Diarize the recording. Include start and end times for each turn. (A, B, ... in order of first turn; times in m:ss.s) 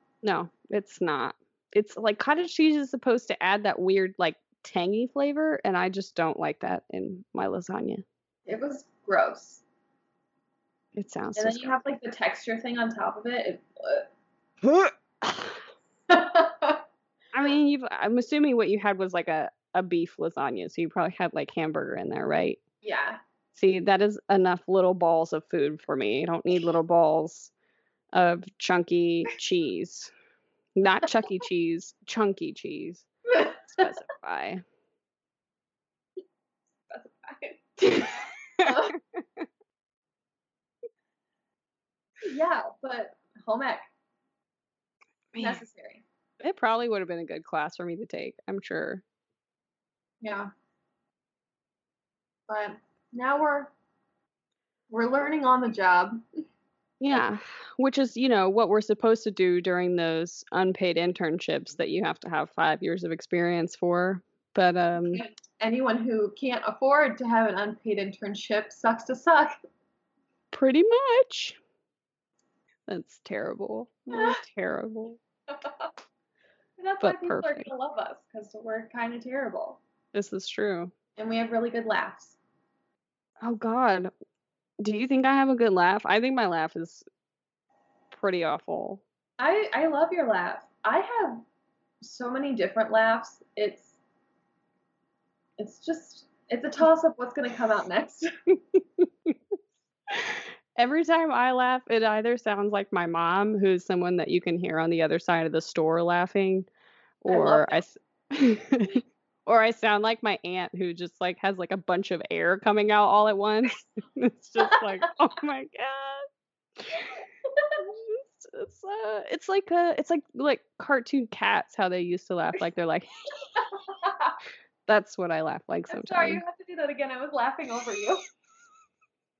0:00.2-0:08.0 A
0:08.5-0:09.6 B
0:10.9-0:11.8 A
0:11.4-0:14.0 B
0:14.6-0:15.6 A
0:16.1-0:16.8 B
0:17.3-0:22.6 A
0:22.8-0:23.2 B
0:23.5-0:27.5 A
0:28.1-0:30.1 A
0:30.8-0:34.6 A
0:36.9-0:37.8 B
0:37.9-0:39.4 A
0:38.6-0:39.0 B
0:42.2-0:43.9 B
0:45.3-0:45.6 A
0:45.4-0:46.0 B
0:46.4-0:49.0 A
0:50.2-0:50.5 B
0:52.5-0:53.7 B
0:54.9-0:56.2 B
0:57.0-1:05.2 A
1:05.0-1:09.5 B
1:10.5-1:11.6 A
1:12.9-1:15.2 A
1:15.5-1:15.9 B
1:16.8-1:19.8 B
1:17.0-1:17.7 A
1:20.1-1:20.9 A
1:21.2-1:22.4 B
1:23.4-1:24.1 A
1:24.8-1:27.0 A
1:28.1-1:29.0 A
1:29.4-1:31.4 B
1:32.0-1:33.9 B
1:35.6-1:38.3 B
1:40.1-1:46.7 A
1:47.2-1:56.3 A
1:47.3-1:47.8 B
1:54.6-1:55.0 B
1:56.8-1:57.1 A
1:57.5-1:57.7 B
1:57.8-2:03.1 A
2:03.6-2:04.4 B
2:04.9-2:06.4 A
2:05.9-2:08.2 B